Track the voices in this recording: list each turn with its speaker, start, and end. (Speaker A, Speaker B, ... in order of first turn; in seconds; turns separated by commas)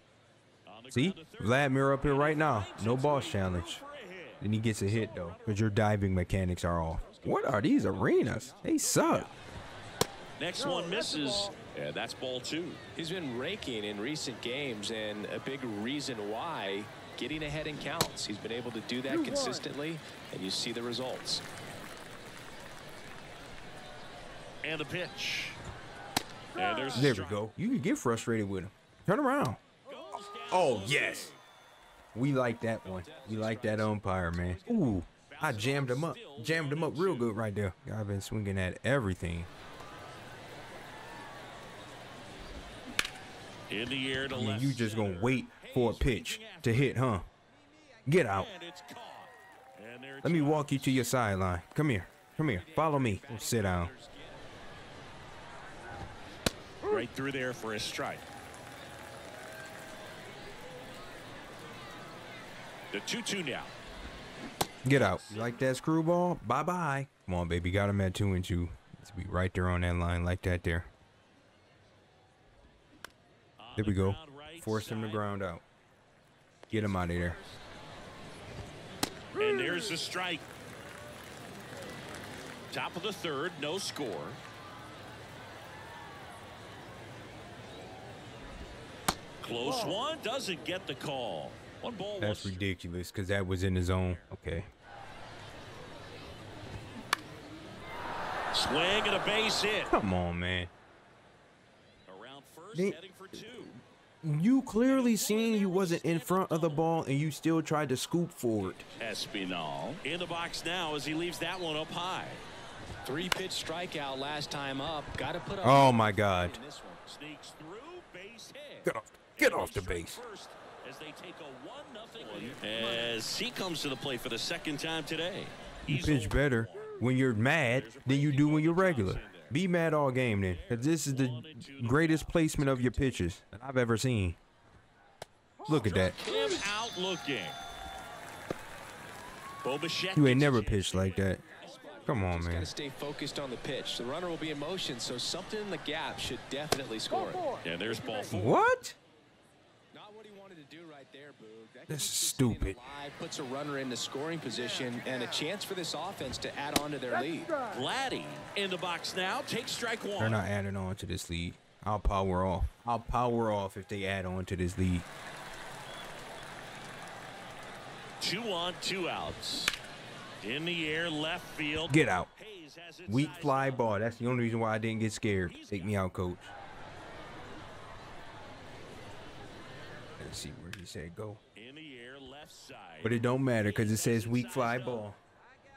Speaker A: 0.7-5.3, Speaker B: 0.9-3.8, Speaker B: 4.4-9.3, Speaker C: 7.0-8.9, Speaker A: 8.9-9.3, Speaker A: 10.4-12.8, Speaker C: 13.0-21.4, Speaker A: 24.6-25.6, Speaker A: 26.6-27.5, Speaker B: 26.9-29.6, Speaker A: 29.9-31.4, Speaker B: 30.5-31.3, Speaker B: 32.1-39.5, Speaker C: 32.8-35.0, Speaker A: 35.2-37.4, Speaker A: 43.7-47.1, Speaker B: 44.3-47.3, Speaker B: 48.1-48.5, Speaker A: 48.2-51.1, Speaker B: 50.2-53.9, Speaker C: 52.4-54.4, Speaker A: 56.8-58.2, Speaker A: 62.9-63.7, Speaker B: 64.8-70.9, Speaker A: 64.9-65.6, Speaker A: 73.6-75.4, Speaker B: 73.8-75.6, Speaker A: 76.7-77.6, Speaker B: 76.7-77.4, Speaker A: 79.4-80.5, Speaker A: 82.7-84.4, Speaker A: 89.4-92.6, Speaker B: 92.2-94.7, Speaker A: 94.0-94.3, Speaker A: 98.5-99.9, Speaker B: 99.9-100.7, Speaker A: 102.1-103.8, Speaker B: 102.7-108.9, Speaker A: 104.8-106.9, Speaker A: 108.6-112.4, Speaker C: 113.0-117.0, Speaker B: 115.6-116.6, Speaker A: 117.1-129.6, Speaker B: 118.9-120.2, Speaker C: 122.2-123.2, Speaker B: 125.9-134.4, Speaker A: 130.4-133.2, Speaker A: 135.7-137.6, Speaker B: 135.7-136.2, Speaker A: 139.6-142.2, Speaker B: 140.2-141.4, Speaker C: 141.6-147.6, Speaker B: 142.1-142.7, Speaker A: 147.6-148.6, Speaker B: 148.3-149.0, Speaker C: 149.9-157.6, Speaker B: 151.9-152.8, Speaker A: 157.7-160.4, Speaker B: 160.2-165.1, Speaker A: 168.2-169.8, Speaker A: 170.4-173.9, Speaker B: 171.9-172.3, Speaker B: 173.1-176.5, Speaker A: 175.4-176.1, Speaker B: 180.2-181.4, Speaker A: 181.6-185.1, Speaker B: 183.0-185.2